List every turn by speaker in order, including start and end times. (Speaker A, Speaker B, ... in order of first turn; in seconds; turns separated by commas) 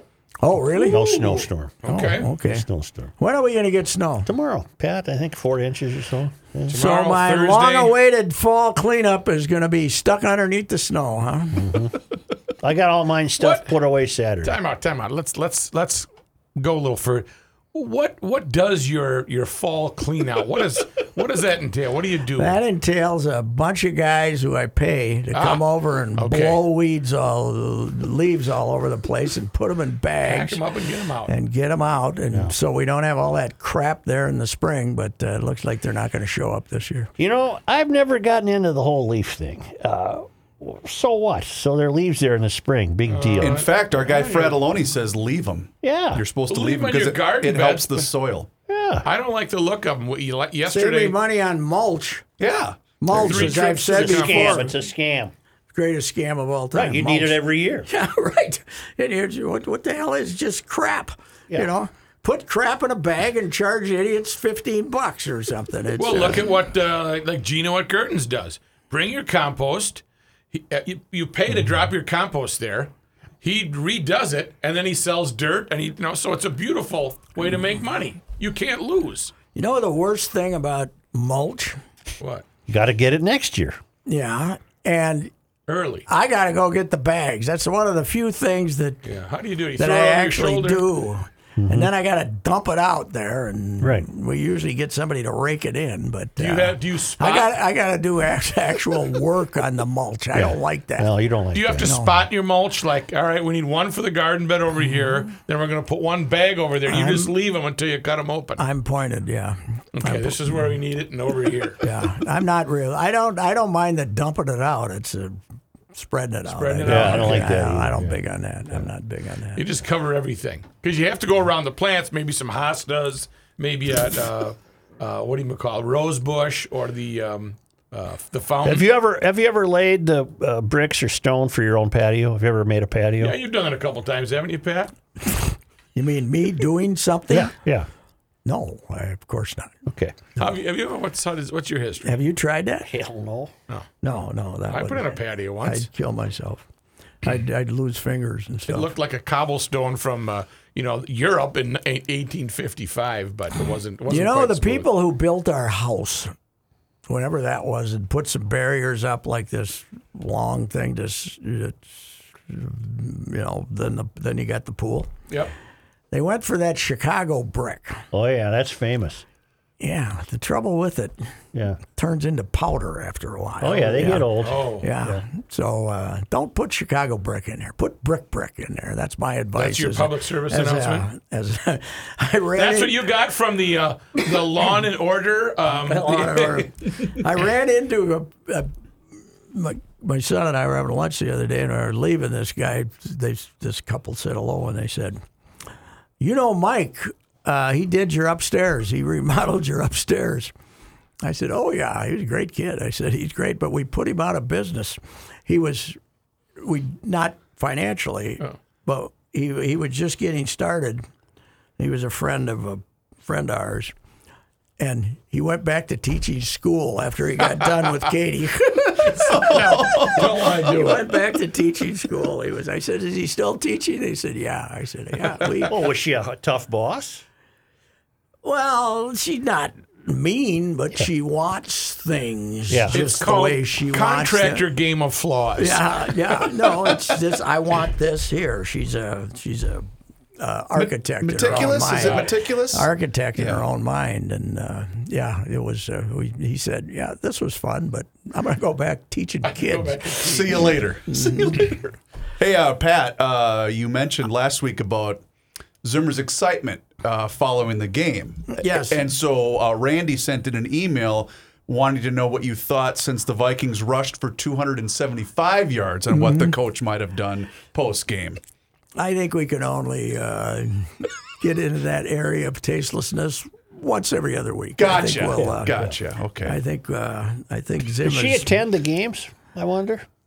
Speaker A: 0.4-1.0, Speaker B: 0.8-2.3, Speaker C: 0.8-1.8, Speaker A: 1.8-2.6, Speaker C: 2.3-3.1, Speaker A: 3.2-4.3, Speaker C: 4.2-6.8, Speaker B: 6.7-8.0, Speaker A: 6.7-11.6, Speaker C: 11.5-11.9, Speaker C: 12.6-14.6, Speaker B: 13.4-13.7, Speaker B: 14.4-22.6, Speaker A: 22.4-30.6, Speaker B: 25.3-25.6, Speaker B: 26.2-26.6, Speaker B: 30.2-31.3, Speaker A: 31.3-37.1, Speaker C: 37.2-43.6, Speaker B: 43.1-44.6, Speaker D: 43.4-48.5, Speaker C: 45.8-46.2, Speaker B: 46.5-48.0, Speaker C: 48.7-49.1, Speaker B: 49.0-51.2, Speaker A: 50.7-52.2, Speaker D: 52.4-52.9, Speaker A: 53.0-54.7, Speaker B: 53.1-54.7, Speaker C: 53.2-55.3, Speaker A: 55.7-66.4, Speaker C: 56.7-57.9, Speaker B: 66.0-72.9, Speaker B: 73.4-79.3, Speaker A: 79.5-81.8, Speaker C: 82.7-83.8, Speaker A: 84.0-85.3, Speaker B: 85.7-86.0, Speaker A: 86.1-89.0, Speaker B: 89.0-90.8, Speaker A: 89.8-101.1, Speaker C: 91.6-91.9, Speaker C: 93.8-94.0, Speaker B: 96.4-97.5, Speaker C: 100.3-101.9, Speaker B: 101.5-108.6, Speaker A: 101.8-102.2, Speaker A: 106.9-107.3, Speaker A: 108.6-110.7, Speaker B: 110.0-111.8, Speaker A: 111.8-115.4, Speaker A: 115.9-119.6, Speaker B: 116.5-117.6, Speaker C: 116.8-118.2, Speaker B: 119.5-128.8, Speaker C: 128.6-133.4, Speaker B: 133.2-134.9, Speaker A: 135.9-137.5, Speaker C: 137.3-137.9, Speaker A: 138.4-139.7, Speaker C: 139.9-140.2, Speaker B: 140.4-142.2, Speaker A: 142.0-142.9, Speaker C: 142.9-143.5, Speaker A: 144.0-146.6, Speaker B: 144.7-145.9, Speaker A: 147.2-148.9, Speaker B: 148.7-154.9, Speaker A: 154.1-156.3, Speaker A: 157.1-165.1, Speaker A: 166.1-168.0, Speaker C: 168.1-169.2, Speaker A: 169.8-171.2, Speaker C: 171.5-171.8, Speaker A: 171.9-183.0, Speaker C: 173.6-175.2, Speaker B: 174.4-174.9, Speaker B: 179.6-181.1, Speaker B: 182.6-186.6, Speaker A: 185.7-188.7, Speaker A: 189.5-195.2, Speaker A: 196.2-200.5, Speaker A: 201.2-206.0, Speaker A: 206.6-211.0, Speaker A: 211.8-213.9, Speaker A: 214.8-219.6, Speaker B: 219.1-221.1, Speaker D: 219.2-220.9, Speaker A: 220.1-225.7, Speaker C: 225.7-227.2, Speaker A: 228.4-234.7, Speaker C: 232.7-233.0, Speaker B: 232.9-236.9, Speaker A: 235.6-239.9, Speaker A: 240.4-251.8, Speaker D: 240.8-243.6, Speaker B: 241.4-242.3, Speaker B: 249.4-250.8, Speaker D: 250.2-255.2, Speaker D: 255.8-268.4, Speaker A: 258.5-259.1, Speaker A: 266.1-266.5, Speaker A: 268.9-275.8, Speaker D: 274.8-276.6, Speaker C: 275.3-275.9, Speaker A: 276.4-278.6, Speaker C: 278.0-280.1